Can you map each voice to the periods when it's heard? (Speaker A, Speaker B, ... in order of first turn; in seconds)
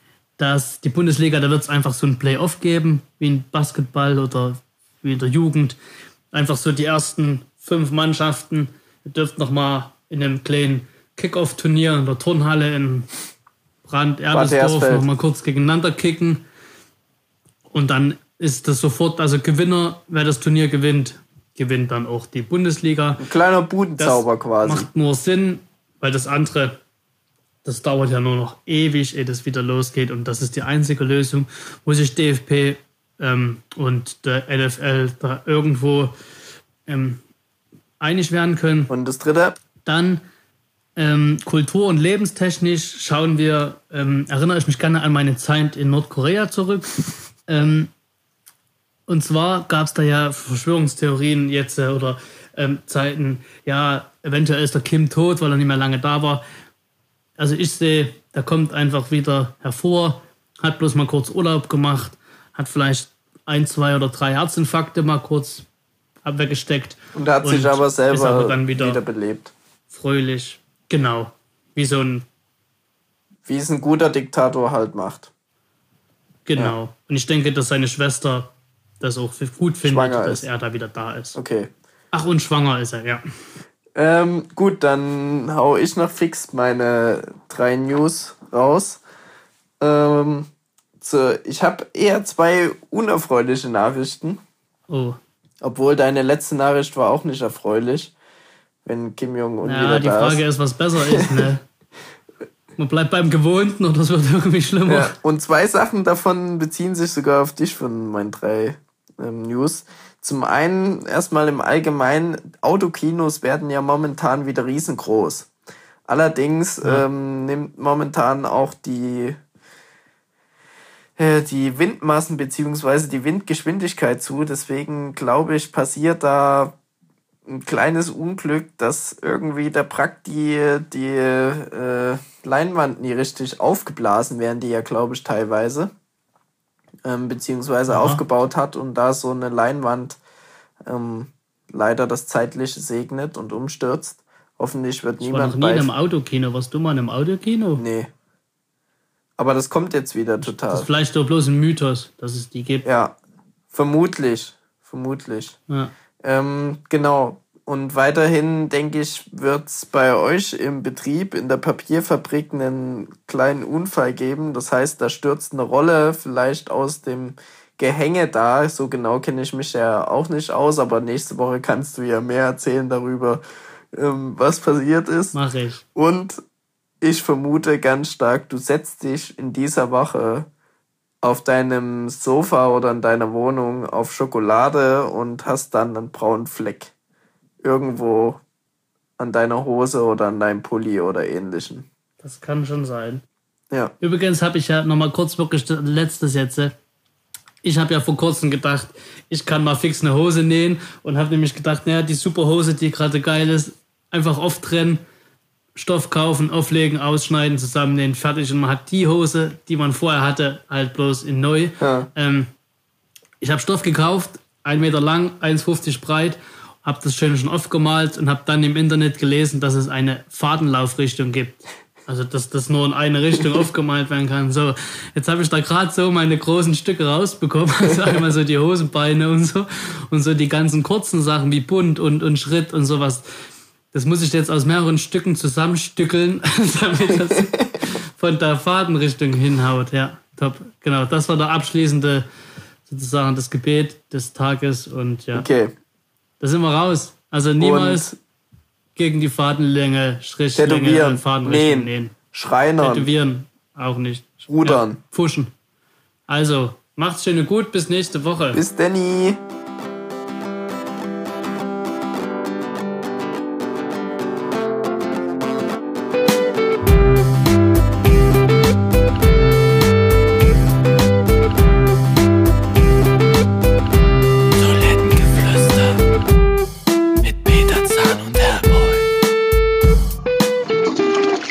Speaker A: 0.4-5.8, 6.3-13.1, 13.8-16.4, 17.7-23.2, 24.0-26.8, 27.6-36.1, 36.9-37.2, 38.0-38.9, 39.9-40.2, 41.0-47.9, 49.1-56.4, 57.4-65.7, 66.2-69.0, 69.9-72.3, 76.5-81.4, 82.1-83.2, 94.9-95.2, 99.6-101.6, 102.8-105.2, 137.9-138.2, 145.2-147.8, 150.4-152.8, 175.3-175.8, 192.2-193.2, 194.0-196.7, 197.6-205.0, 205.8-212.5, 213.4-233.3, 233.9-242.2, 242.9-245.5, 246.4-248.1, 249.0-252.2, 252.8-255.5, 256.3-258.6
Speaker B: 14.3-15.1, 23.2-24.9, 38.9-39.6, 67.2-69.5, 73.5-75.3, 79.8-80.5, 81.3-81.7, 84.0-89.0, 89.8-90.5, 91.0-94.4, 95.6-98.1, 98.8-100.4, 101.1-101.5, 104.9-115.5, 116.1-119.4, 121.2-126.8, 127.5-135.9, 137.1-140.2, 140.9-145.9, 147.8-148.1, 149.4-150.9, 152.8-153.2, 153.7-155.6, 156.2-173.4, 173.9-175.4, 175.9-176.4, 177.0-180.5, 181.2-186.9, 187.6-188.4, 189.2-191.9, 211.8-212.1, 237.4-237.6, 245.3-245.7, 247.6-248.2, 250.6-253.1, 254.5-255.0, 258.5-259.4, 274.6-276.0, 277.2-279.1